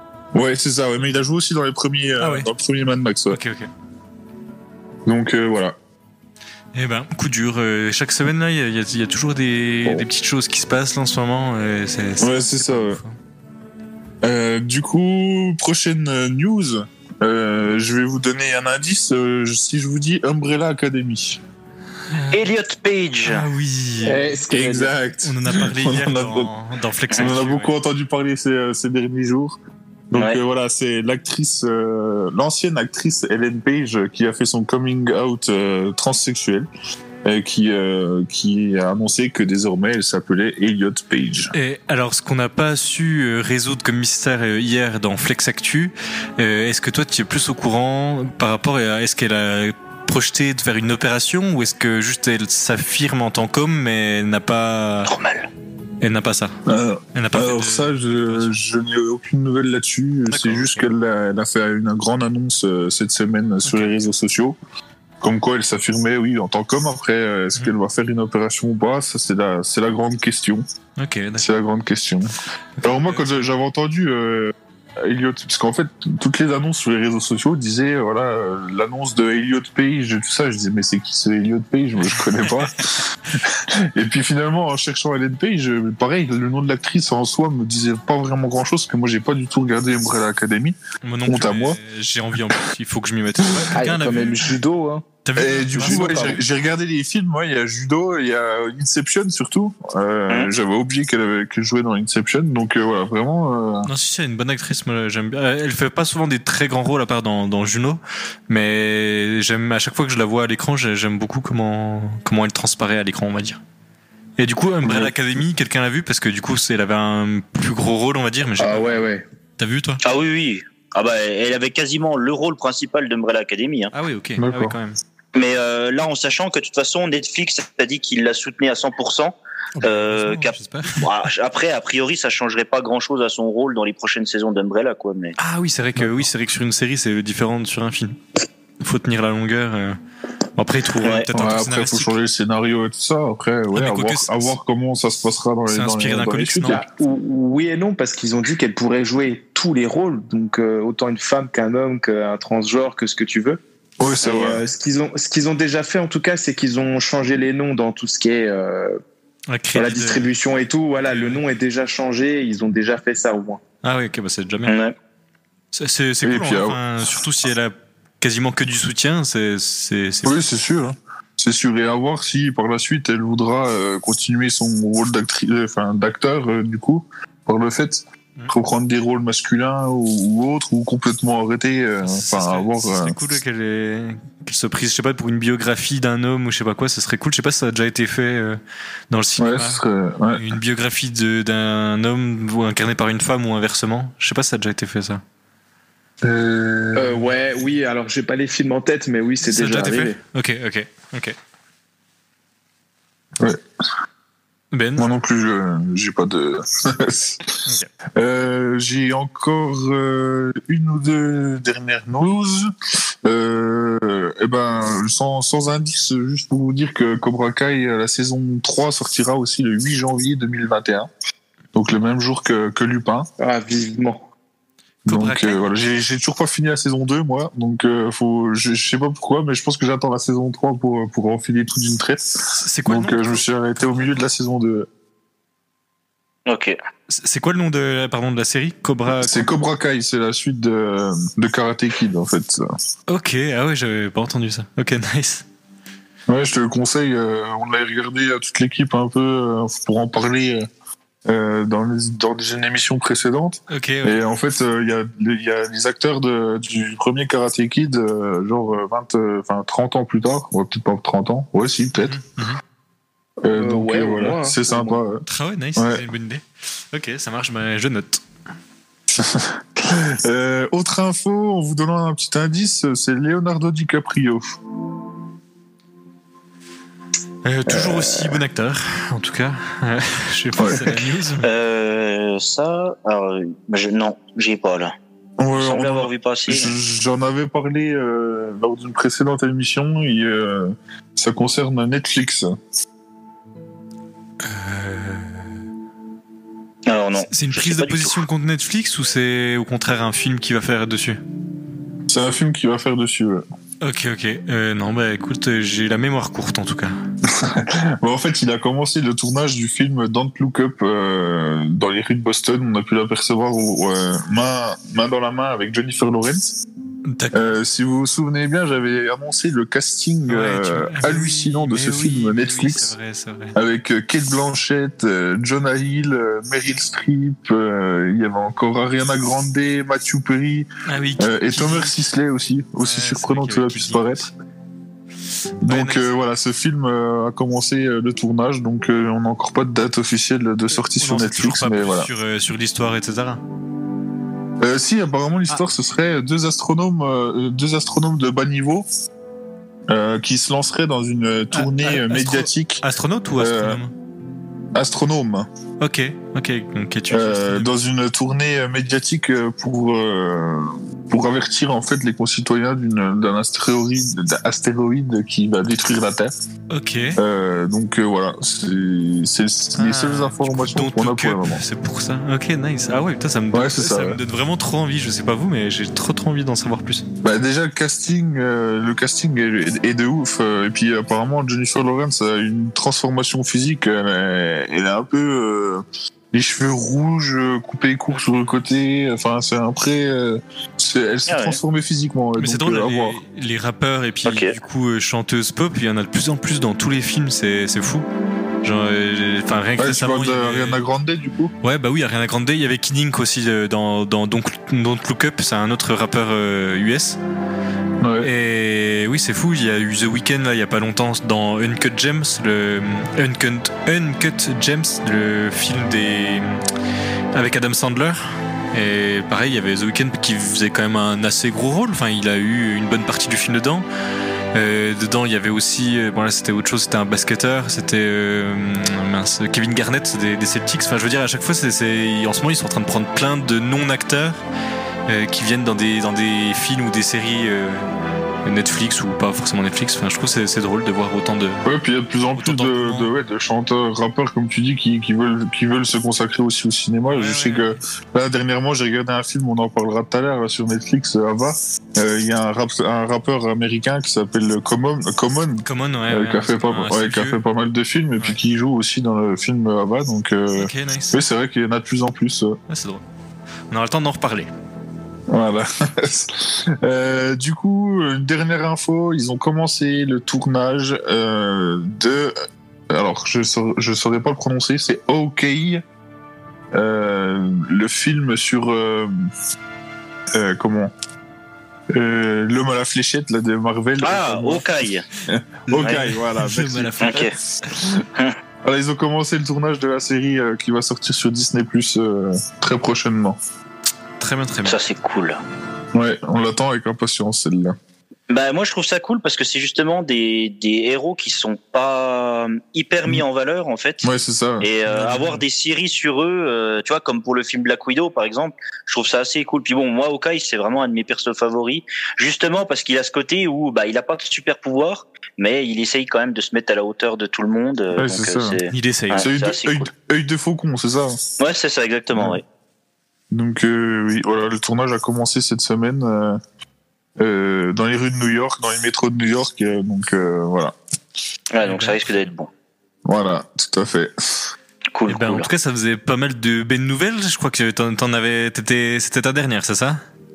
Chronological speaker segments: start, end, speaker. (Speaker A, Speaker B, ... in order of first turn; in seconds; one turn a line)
Speaker A: 0.3-3.4
Speaker B: 2.2-2.5
Speaker B: 3.3-3.7
Speaker A: 5.1-5.8
Speaker B: 6.8-13.2
Speaker A: 12.2-13.0
Speaker A: 14.2-21.4
Speaker B: 22.1-22.4
Speaker C: 22.3-23.4
Speaker B: 23.2-24.2
Speaker D: 24.0-24.9
Speaker A: 24.5-26.5
Speaker B: 25.2-27.7
Speaker A: 27.2-29.6
Speaker A: 30.1-36.7
Speaker A: 37.2-41.5
Speaker B: 41.5-55.1
Speaker C: 55.0-55.5
Speaker B: 56.0-56.6
Speaker A: 56.7-64.6
Speaker B: 57.1-58.6
Speaker B: 60.3-60.9
Speaker B: 63.6-63.9
Speaker A: 65.2-70.7
Speaker B: 71.0-71.5
Speaker A: 71.4-91.8
Speaker B: 72.8-73.5
Speaker B: 91.0-94.4
Speaker D: 93.7-95.1
Speaker B: 95.2-96.4
Speaker A: 95.3-103.9
Speaker D: 95.8-96.4
Speaker B: 103.9-113.6
Speaker B: 114.4-118.9
Speaker A: 114.8-115.1
Speaker D: 118.6-119.2
Speaker B: 119.6-120.0
Speaker C: 120.0-123.9
Speaker B: 123.9-125.0
Speaker A: 124.4-124.8
Speaker C: 125.3-135.4
Speaker B: 129.8-131.1
Speaker B: 135.4-138.2
Speaker A: 136.0-136.3
Speaker B: 138.8-140.0
Speaker B: 140.6-142.2
Speaker A: 141.3-146.8
Speaker B: 143.7-144.6
Speaker B: 145.7-146.8
Speaker D: 146.7-159.0
Speaker A: 154.0-154.6
Speaker B: 159.5-160.3
Speaker D: 159.7-163.6
Speaker B: 161.1-161.4
Speaker B: 163.8-164.7
Speaker C: 164.7-164.9
Speaker B: 165.7-170.4
Speaker A: 166.2-167.2
Speaker A: 170.2-183.2
Speaker B: 182.0-188.6
Speaker B: 189.1-189.8
Speaker A: 189.4-190.4
Speaker B: 190.3-195.2
Speaker A: 196.2-197.2
Speaker D: 196.9-200.2
Speaker B: 199.4-201.4
Speaker B: 204.7-205.1
Speaker A: 205.0-207.5
Speaker B: 207.7-207.9
Speaker A: 208.2-212.7
Speaker A: 213.2-221.1
Speaker A: 221.8-223.3
Speaker D: 223.4-224.2
Speaker B: 225.1-225.6
Speaker A: 225.1-234.9
Speaker B: 232.5-233.4
Speaker C: 236.5-236.8
Speaker B: 237.1-239.5
Speaker A: 239.2-242.6
Speaker B: 243.1-245.4
Speaker A: 246.3-250.7
Speaker A: 251.3-262.2
Speaker B: 253.7-254.2
Speaker B: 262.0-262.6
Speaker A: 263.4-266.0
Speaker D: 263.5-265.0
Speaker B: 265.3-268.2
Speaker A: 269.1-274.6
Speaker B: 277.4-281.5
Speaker A: 277.7-278.4
Speaker A: 280.6-281.0
Speaker C: 281.4-284.9
Speaker A: 285.4-292.5
Speaker C: 285.6-286.8
Speaker B: 294.4-295.5
Speaker C: 296.9-298.2
Speaker B: 297.3-301.2
Speaker A: 302.1-303.4
Speaker B: 303.8-307.0
Speaker A: 307.2-316.6
Speaker B: 317.1-317.5
Speaker A: 317.3-322.9
Speaker B: 320.3-323.6
Speaker A: 323.6-334.3
Speaker B: 330.9-332.0
Speaker B: 332.8-334.3
Speaker A: 335.6-342.1
Speaker B: 335.7-336.1
Speaker B: 341.0-343.4
Speaker A: 344.6-348.9
Speaker A: 349.9-352.8
Speaker B: 351.5-353.9
Speaker A: 353.4-353.8
Speaker A: 354.7-355.5
Speaker B: 355.8-357.7
Speaker A: 357.1-366.3
Speaker B: 366.7-367.2
Speaker A: 367.2-371.6
Speaker B: 369.8-377.1
Speaker A: 373.5-374.2
Speaker A: 377.2-393.2
Speaker B: 388.1-388.6
Speaker C: 391.3-391.6
Speaker B: 392.4-398.1
Speaker C: 394.3-394.5
Speaker B: 398.6-400.8
Speaker A: 399.8-401.5
Speaker B: 401.6-407.2
Speaker A: 408.0-408.3
Speaker B: 408.2-416.6
Speaker B: 417.3-423.9
Speaker B: 424.5-434.4
Speaker B: 435.1-437.9
Speaker B: 438.4-441.6
Speaker A: 441.6-462.6
Speaker B: 442.4-443.1
Speaker B: 447.1-447.7
Speaker B: 455.6-457.4
Speaker B: 460.6-461.2
Speaker B: 462.7-463.0
Speaker B: 463.7-464.5
Speaker A: 465.3-472.4
Speaker A: 472.9-475.8
Speaker A: 476.7-479.1
Speaker A: 480.3-480.9
Speaker A: 481.9-487.3
Speaker C: 484.0-485.1
Speaker B: 485.7-487.7
Speaker C: 487.0-487.3
Speaker A: 488.6-493.4
Speaker B: 494.2-494.8
Speaker C: 494.7-495.4
Speaker A: 495.9-497.8
Speaker C: 498.3-504.1
Speaker A: 504.0-504.7
Speaker C: 504.6-519.9
Speaker B: 504.9-505.4
Speaker A: 517.9-518.6
Speaker B: 518.7-519.3
Speaker A: 519.1-521.2
Speaker C: 521.4-522.4
Speaker A: 523.3-526.4
Speaker A: 527.2-530.8
Speaker C: 531.5-532.5
Speaker B: 531.6-532.2
Speaker A: 533.1-534.5
Speaker C: 535.0-535.5
Speaker B: 535.1-540.0